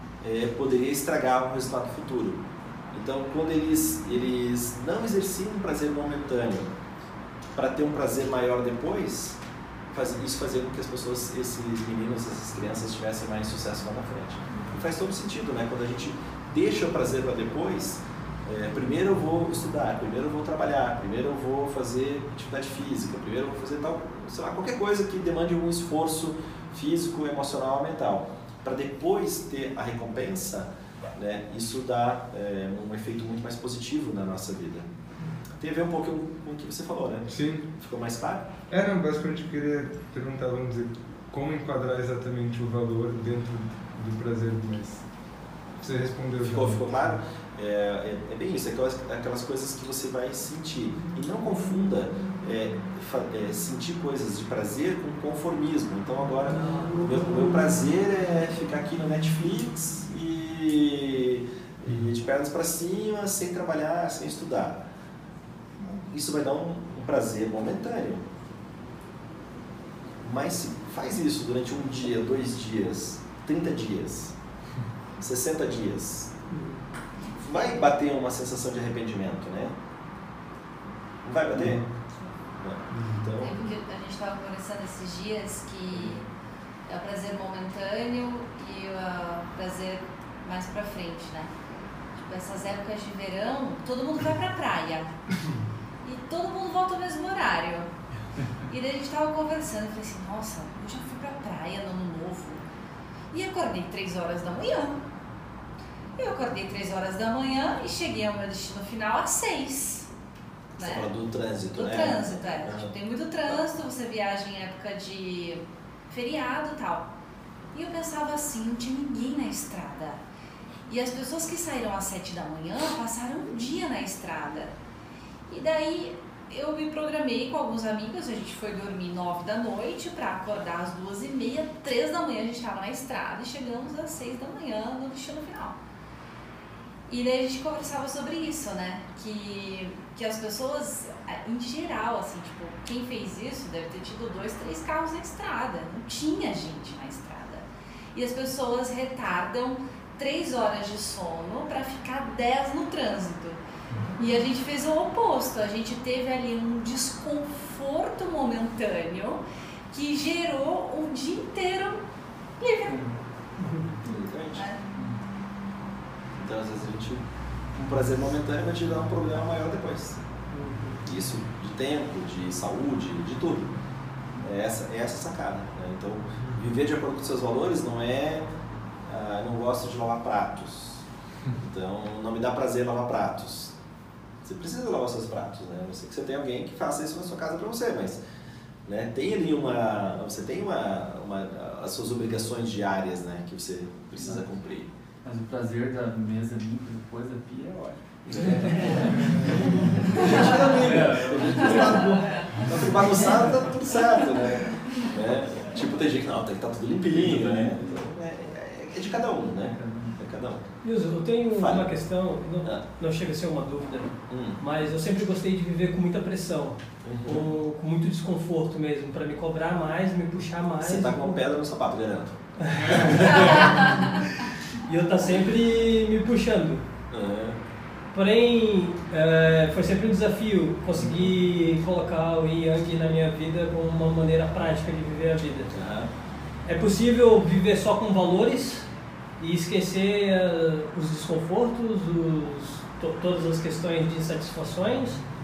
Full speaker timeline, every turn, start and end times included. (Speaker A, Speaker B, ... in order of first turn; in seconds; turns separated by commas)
Speaker A: 0.2-6.7, Speaker A: 7.6-9.4, Speaker A: 9.9-34.9, Speaker A: 35.6-38.5, Speaker B: 37.3-37.7, Speaker B: 38.7-45.0, Speaker B: 45.8-47.2, Speaker A: 45.8-64.8, Speaker C: 56.6-56.9, Speaker A: 65.9-68.3, Speaker A: 70.2-74.3, Speaker A: 75.2-76.3, Speaker C: 76.5-76.8, Speaker A: 77.4-79.8, Speaker A: 81.2-81.8, Speaker B: 81.5-81.9, Speaker A: 82.6-83.5, Speaker B: 82.9-83.3, Speaker D: 83.4-86.2, Speaker D: 86.9-91.5, Speaker D: 92.2-95.2, Speaker D: 96.0-97.9, Speaker D: 98.7-102.7, Speaker D: 103.3-105.0, Speaker D: 106.2-110.1, Speaker A: 110.8-112.9, Speaker D: 110.8-111.1, Speaker D: 111.7-117.1, Speaker D: 117.7-120.2, Speaker D: 120.9-124.7, Speaker D: 125.5-135.8, Speaker D: 137.1-153.6, Speaker D: 154.2-162.0, Speaker D: 162.6-163.0, Speaker E: 162.9-163.2, Speaker C: 163.6-164.1, Speaker A: 164.0-164.7, Speaker D: 164.5-164.8, Speaker E: 164.9-165.2, Speaker A: 166.4-167.2, Speaker E: 167.8-168.0, Speaker A: 167.8-170.2, Speaker C: 170.5-171.0, Speaker A: 171.0-173.7, Speaker A: 174.4-178.5, Speaker A: 179.1-183.7, Speaker A: 184.4-188.2, Speaker A: 188.9-194.9, Speaker E: 195.2-203.2, Speaker A: 198.2-199.5, Speaker A: 200.1-210.6, Speaker C: 201.7-202.1, Speaker E: 207.1-207.8, Speaker E: 209.6-210.2, Speaker C: 210.8-221.4, Speaker A: 211.6-211.9, Speaker A: 214.3-214.6, Speaker A: 217.0-217.5, Speaker A: 220.8-223.7, Speaker C: 222.6-224.1, Speaker C: 224.8-226.9, Speaker A: 227.1-227.6, Speaker C: 228.1-235.8, Speaker A: 230.9-231.3, Speaker A: 235.7-236.1, Speaker C: 236.7-245.2